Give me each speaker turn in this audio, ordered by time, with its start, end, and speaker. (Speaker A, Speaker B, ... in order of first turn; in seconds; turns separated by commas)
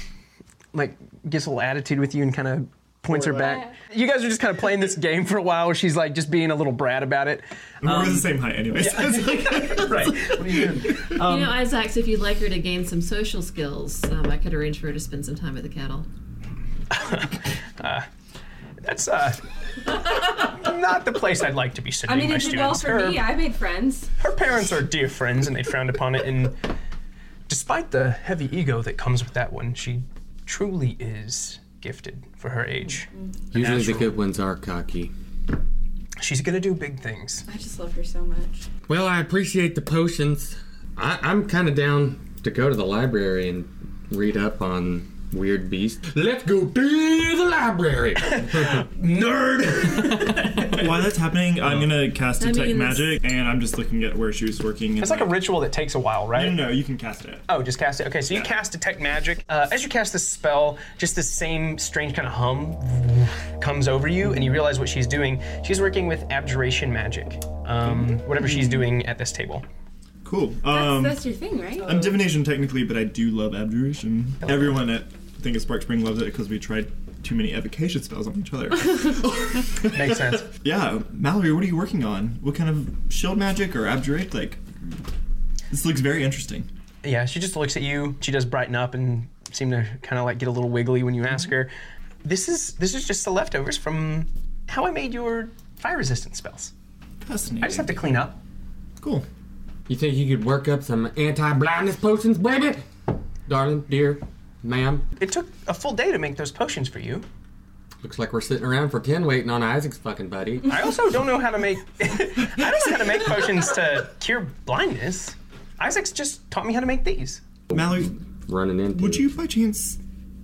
Speaker A: 0.7-11.4, Speaker B: 3.1-3.5, Speaker B: 7.8-11.5, Speaker C: 11.1-16.1, Speaker A: 16.9-18.1, Speaker A: 18.8-23.3, Speaker D: 22.1-24.1, Speaker A: 24.2-26.6, Speaker A: 27.5-34.1, Speaker E: 33.5-35.1, Speaker A: 36.2-37.4, Speaker D: 37.5-38.7, Speaker E: 38.9-48.9, Speaker A: 48.2-50.9, Speaker B: 50.6-55.4, Speaker C: 52.4-53.2, Speaker A: 55.0-56.6, Speaker B: 56.3-57.5, Speaker A: 57.5-69.6, Speaker B: 70.2-71.2, Speaker D: 70.7-72.0, Speaker B: 71.8-84.6, Speaker A: 74.4-74.8, Speaker A: 79.8-80.5, Speaker B: 85.7-86.7, Speaker A: 87.0-91.7, Speaker A: 92.2-96.7, Speaker B: 97.2-98.0, Speaker A: 97.6-98.4, Speaker B: 99.0-99.2, Speaker E: 99.9-102.8, Speaker E: 103.5-105.1, Speaker A: 105.2-107.2, Speaker E: 108.0-110.7, Speaker A: 110.7-117.4, Speaker E: 117.7-119.3, Speaker B: 117.7-118.1, Speaker B: 118.9-120.0